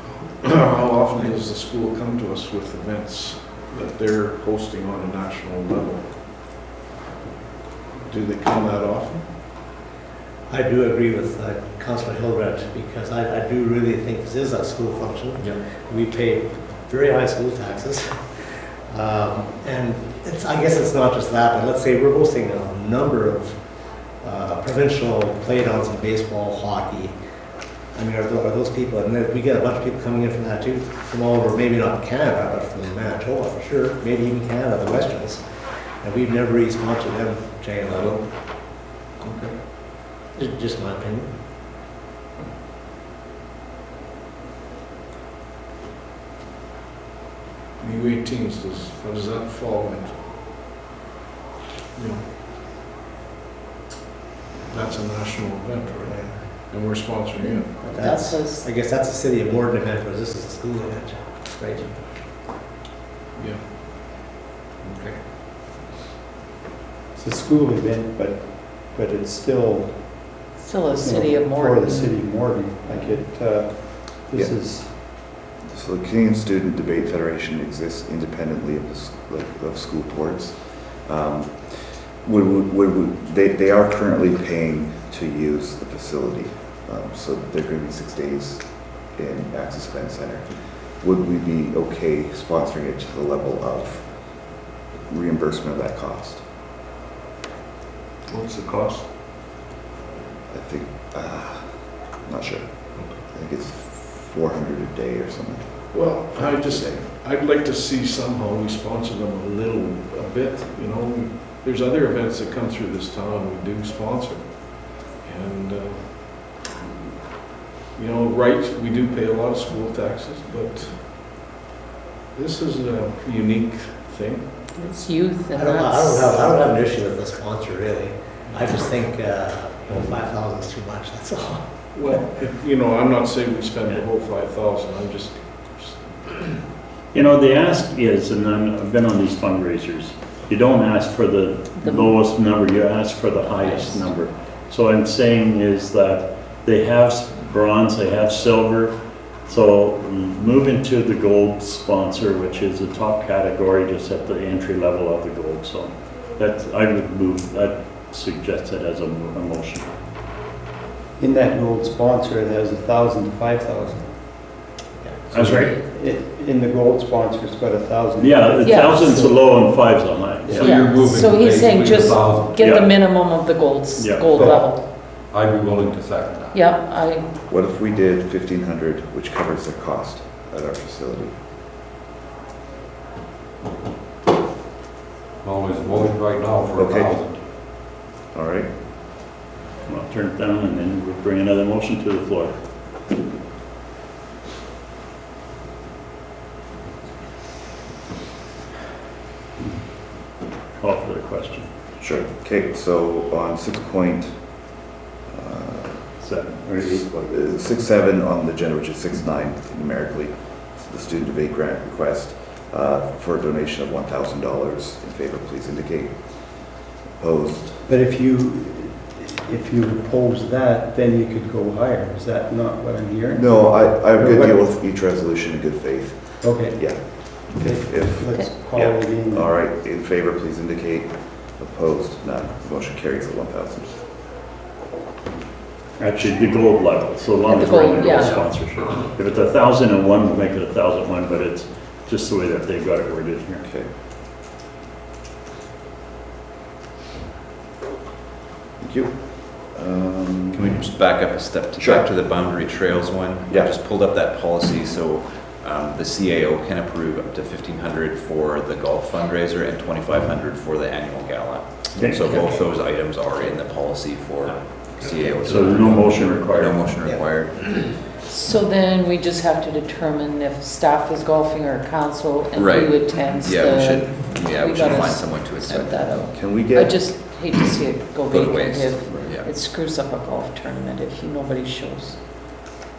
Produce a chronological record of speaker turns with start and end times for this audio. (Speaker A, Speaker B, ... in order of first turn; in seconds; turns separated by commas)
Speaker A: 0.4-6.1, Speaker A: 8.0-9.3, Speaker B: 10.5-23.6, Speaker B: 24.2-27.1, Speaker B: 27.9-38.2, Speaker A: 37.9-38.3, Speaker A: 39.2-39.6, Speaker B: 40.3-41.3, Speaker A: 47.8-50.2, Speaker A: 51.9-52.2, Speaker A: 54.7-57.9, Speaker B: 56.0-56.6, Speaker B: 57.4-62.3, Speaker C: 57.9-58.6, Speaker A: 63.3-63.7, Speaker A: 64.8-65.2, Speaker D: 67.1-74.9, Speaker C: 70.6-73.2, Speaker E: 75.7-96.4, Speaker A: 98.3-99.1, Speaker E: 100.5-107.0, Speaker A: 103.0-103.2, Speaker A: 105.9-116.6, Speaker A: 117.9-121.1, Speaker A: 122.3-124.9, Speaker C: 124.8-126.5, Speaker B: 125.5-131.7, Speaker A: 131.9-136.6, Speaker F: 137.1-159.9, Speaker C: 141.8-142.2, Speaker C: 143.5-144.1, Speaker D: 161.2-164.5, Speaker D: 165.3-170.8, Speaker F: 165.3-165.8, Speaker F: 168.2-170.7, Speaker C: 168.6-169.0, Speaker C: 170.6-174.8, Speaker G: 170.7-172.4, Speaker F: 172.6-174.6, Speaker G: 175.2-176.5, Speaker C: 176.5-177.2, Speaker E: 177.5-181.3, Speaker G: 185.4-187.3, Speaker E: 186.7-187.2, Speaker E: 188.3-188.7, Speaker F: 189.8-192.5, Speaker F: 200.8-201.7, Speaker E: 202.0-204.7, Speaker E: 205.3-217.9, Speaker F: 206.2-207.1, Speaker D: 217.9-224.6, Speaker E: 223.3-234.0, Speaker D: 226.4-229.5, Speaker F: 236.0-243.6, Speaker C: 237.4-238.5, Speaker E: 243.6-243.9, Speaker E: 248.8-250.8, Speaker H: 250.5-268.0, Speaker E: 251.8-252.1, Speaker E: 253.5-253.8, Speaker F: 261.9-262.4, Speaker B: 265.0-266.1, Speaker F: 265.4-266.8, Speaker B: 267.0-267.9, Speaker C: 268.2-282.2, Speaker H: 272.6-276.2, Speaker E: 276.3-277.0, Speaker H: 278.3-279.5